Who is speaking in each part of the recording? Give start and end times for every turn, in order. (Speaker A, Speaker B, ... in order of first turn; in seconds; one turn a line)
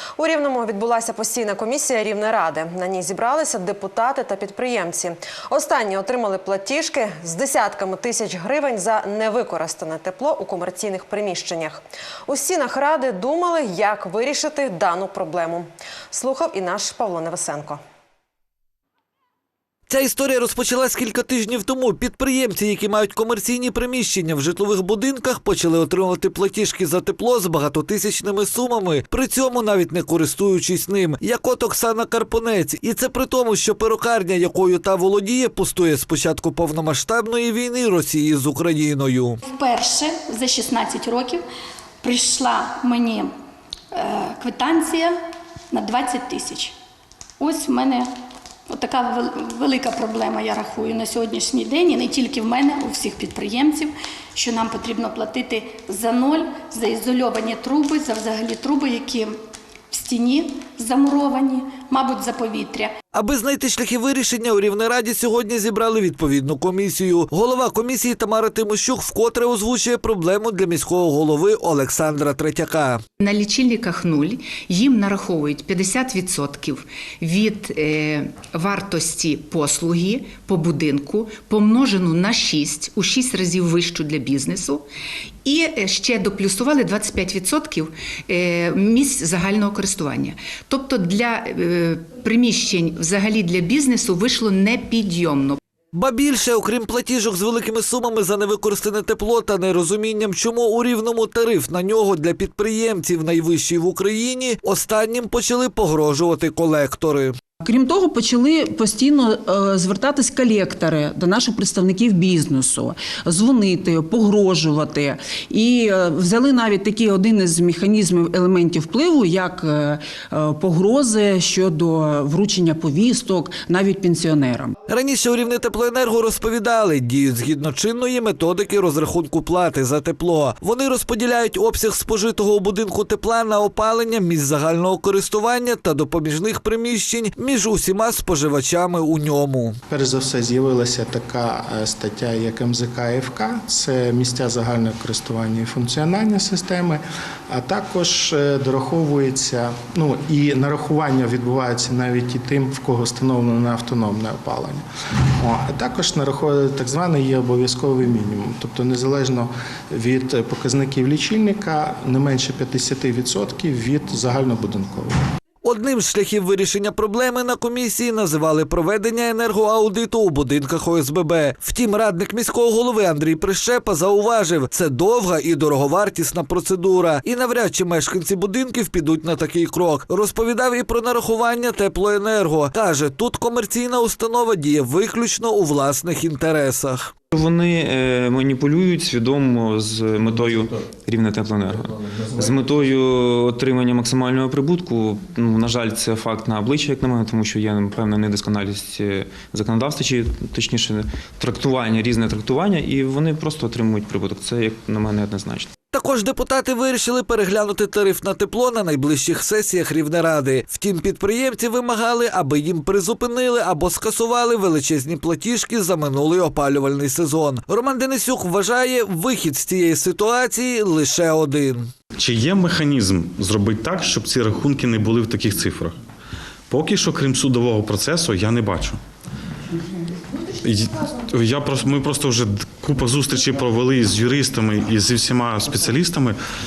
Speaker A: 0.2-17.8
Speaker B: 19.9-39.4
Speaker C: 39.5-41.4
Speaker C: 42.0-43.3
Speaker C: 43.9-45.1
Speaker C: 45.7-46.7
Speaker C: 47.4-48.1
Speaker C: 48.7-59.4
Speaker C: 59.9-62.9
Speaker B: 63.1-73.0
Speaker D: 73.2-84.9
Speaker D: 85.4-95.6
Speaker B: 95.9-107.4
Speaker E: 107.6-124.8
Speaker B: 124.9-139.8
Speaker F: 139.9-154.8
Speaker F: 155.4-165.2
Speaker B: 165.6-187.1
Speaker G: 187.3-205.7
Speaker B: 205.9-221.9
Speaker H: 222.2-226.0
Speaker H: 226.7-229.0
Speaker H: 230.6-236.4